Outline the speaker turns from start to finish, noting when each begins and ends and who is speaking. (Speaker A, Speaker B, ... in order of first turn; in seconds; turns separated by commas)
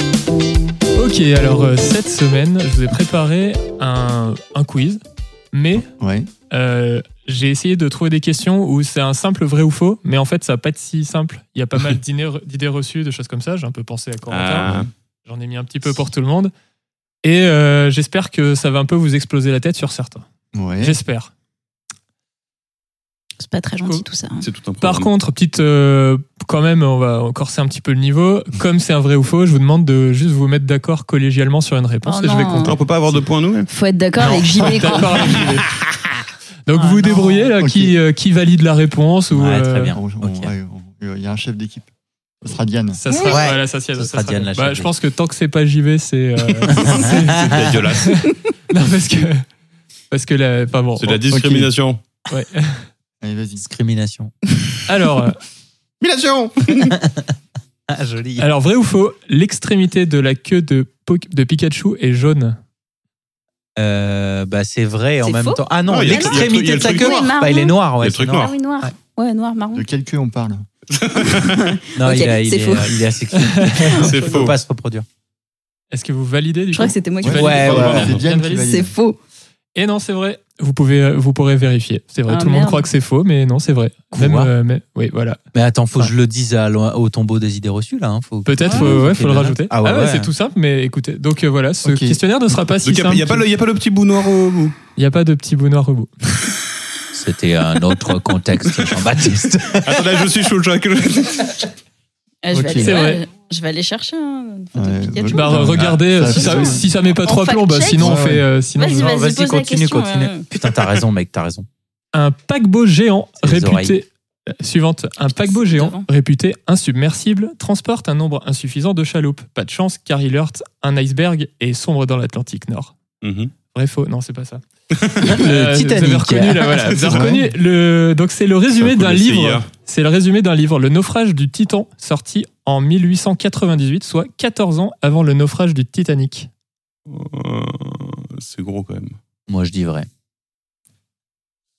Speaker A: 0.9-5.0, Speaker A: 5.5-5.9, Speaker B: 6.0-6.3, Speaker A: 6.5-16.5, Speaker C: 14.3-14.9, Speaker A: 17.2-20.2, Speaker B: 20.5-21.0, Speaker A: 20.8-21.3, Speaker D: 23.4-24.4, Speaker C: 24.4-25.1, Speaker A: 24.8-32.8, Speaker D: 32.0-32.7, Speaker C: 32.5-33.7, Speaker D: 33.7-35.4, Speaker A: 34.6-35.7, Speaker A: 36.7-39.9, Speaker D: 36.8-37.4, Speaker B: 37.6-37.9, Speaker E: 39.3-40.5, Speaker B: 39.9-41.9, Speaker B: 42.4-43.0, Speaker A: 43.0-49.4, Speaker D: 43.1-43.4, Speaker E: 43.2-44.9, Speaker E: 46.7-47.5, Speaker C: 46.7-48.4, Speaker A: 50.1-51.3, Speaker C: 51.0-52.0, Speaker B: 51.3-51.7, Speaker A: 52.3-52.8, Speaker B: 53.2-53.6, Speaker E: 53.6-54.3, Speaker A: 54.9-55.4, Speaker C: 56.0-57.0, Speaker E: 56.9-57.3, Speaker E: 57.9-58.5, Speaker A: 58.4-62.6, Speaker E: 63.8-68.9, Speaker D: 65.2-67.8, Speaker C: 65.9-67.3, Speaker C: 68.0-68.5, Speaker D: 68.4-69.8, Speaker B: 69.7-70.7, Speaker C: 70.9-71.8, Speaker D: 71.4-73.0, Speaker E: 71.9-75.0, Speaker A: 73.5-73.8, Speaker D: 73.6-74.5, Speaker C: 74.0-74.5, Speaker A: 75.9-78.8, Speaker D: 76.7-79.2, Speaker B: 77.2-78.9, Speaker E: 77.3-78.2, Speaker C: 78.0-78.2, Speaker A: 79.7-85.4, Speaker D: 82.3-82.8, Speaker E: 84.1-84.5, Speaker E: 85.5-90.3, Speaker A: 88.5-93.4, Speaker D: 88.6-89.0, Speaker B: 91.8-92.2, Speaker C: 92.8-94.8, Speaker A: 95.0-96.1, Speaker E: 97.1-100.1, Speaker C: 99.8-101.7, Speaker D: 102.4-108.1, Speaker B: 102.5-102.9, Speaker A: 102.7-103.2, Speaker B: 104.7-106.8, Speaker A: 105.3-109.1, Speaker B: 108.0-108.4, Speaker D: 108.8-110.5, Speaker E: 108.9-111.7, Speaker A: 112.1-123.0, Speaker E: 113.4-114.0, Speaker D: 115.4-116.0, Speaker C: 123.2-123.5, Speaker A: 123.6-124.6, Speaker C: 125.0-125.2, Speaker E: 125.2-127.4, Speaker A: 125.4-136.5, Speaker C: 126.8-127.3, Speaker C: 128.7-129.7, Speaker C: 137.1-139.2, Speaker E: 139.5-140.1